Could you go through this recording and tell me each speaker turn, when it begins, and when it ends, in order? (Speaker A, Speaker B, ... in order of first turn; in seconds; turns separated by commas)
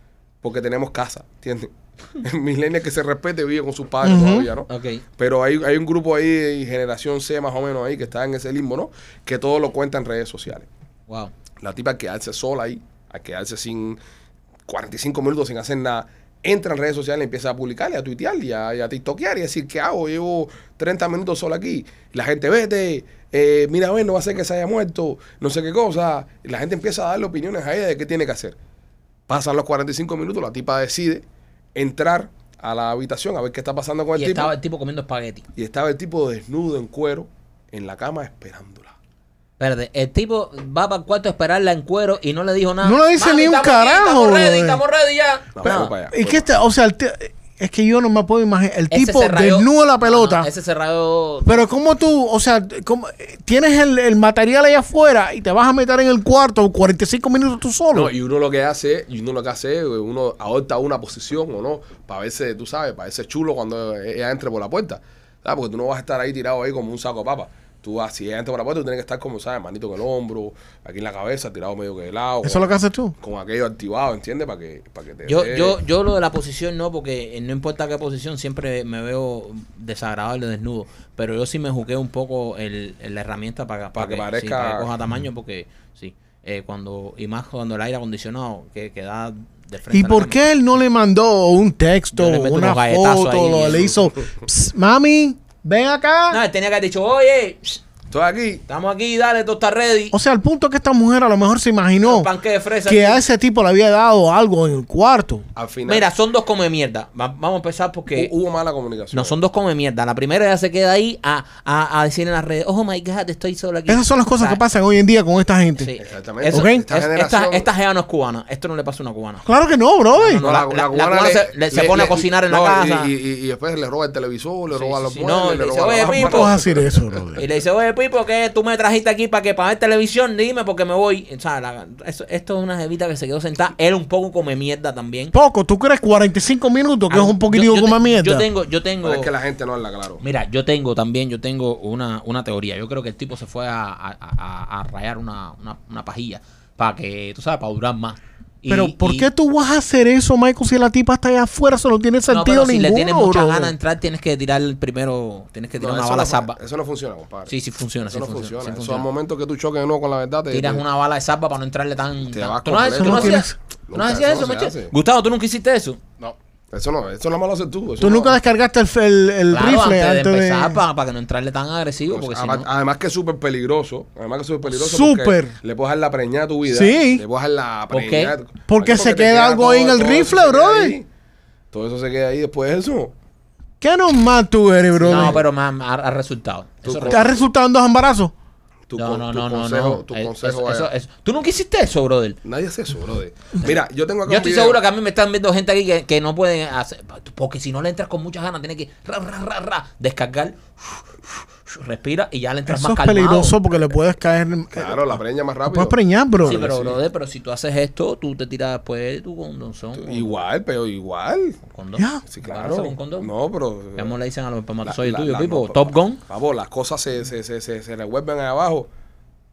Speaker A: 0.4-10.7, Speaker B: 4.0-4.5, Speaker C: 4.7-5.0, Speaker C: 11.1-11.3, Speaker A: 11.6-14.0, Speaker A: 14.7-28.6, Speaker A: 29.3-31.2, Speaker A: 31.7-34.5, Speaker C: 34.1-35.4, Speaker A: 35.5-38.9, Speaker C: 39.6-45.8, Speaker B: 42.8-44.8, Speaker A: 45.5-46.5, Speaker B: 45.6-50.5, Speaker C: 48.9-51.6, Speaker B: 51.4-58.1, Speaker A: 57.9-72.7, Speaker B: 72.4-73.1, Speaker A: 73.2-75.8, Speaker C: 75.3-90.4, Speaker A: 84.0-84.9, Speaker B: 89.9-96.4, Speaker C: 92.1-94.0, Speaker C: 96.3-97.8, Speaker A: 98.1-98.6, Speaker C: 98.7-100.1, Speaker B: 100.1-102.3, Speaker C: 102.0-103.2, Speaker B: 102.8-105.4, Speaker A: 105.5-106.1, Speaker C: 105.8-108.3, Speaker A: 108.1-109.3, Speaker C: 109.1-114.6, Speaker B: 113.9-115.9, Speaker C: 115.8-119.5, Speaker A: 116.0-117.7, Speaker B: 116.5-116.8, Speaker B: 119.4-120.4, Speaker C: 120.2-123.1, Speaker A: 120.4-127.4, Speaker C: 124.7-126.5, Speaker B: 126.2-127.4, Speaker C: 127.3-135.3, Speaker B: 135.3-138.5, Speaker C: 137.1-139.3, Speaker A: 139.0-140.2, Speaker C: 140.2-149.3, Speaker B: 148.7-153.7, Speaker C: 152.3-156.6, Speaker A: 155.8-157.5, Speaker C: 157.5-159.1, Speaker A: 158.1-160.8, Speaker C: 160.5-166.0, Speaker A: 162.3-164.9, Speaker B: 163.0-163.5, Speaker A: 166.2-168.4, Speaker B: 168.0-170.8, Speaker C: 169.5-172.7, Speaker A: 172.1-181.1, Speaker B: 174.7-175.5, Speaker B: 176.7-177.2, Speaker C: 177.9-178.3, Speaker B: 178.7-180.9, Speaker A: 181.7-183.1, Speaker B: 183.8-185.4, Speaker A: 185.0-185.4, Speaker C: 185.1-187.2, Speaker A: 186.8-187.4, Speaker B: 187.1-188.3, Speaker A: 188.9-190.9, Speaker C: 188.9-192.4, Speaker A: 192.4-194.8, Speaker C: 194.2-201.1, Speaker C: 201.7-203.6, Speaker B: 202.7-206.7, Speaker A: 204.7-207.0, Speaker C: 206.4-210.4, Speaker A: 210.0-211.6, Speaker C: 211.6-213.3, Speaker B: 211.9-212.2, Speaker A: 212.3-214.1, Speaker C: 214.0-216.2, Speaker A: 214.8-218.9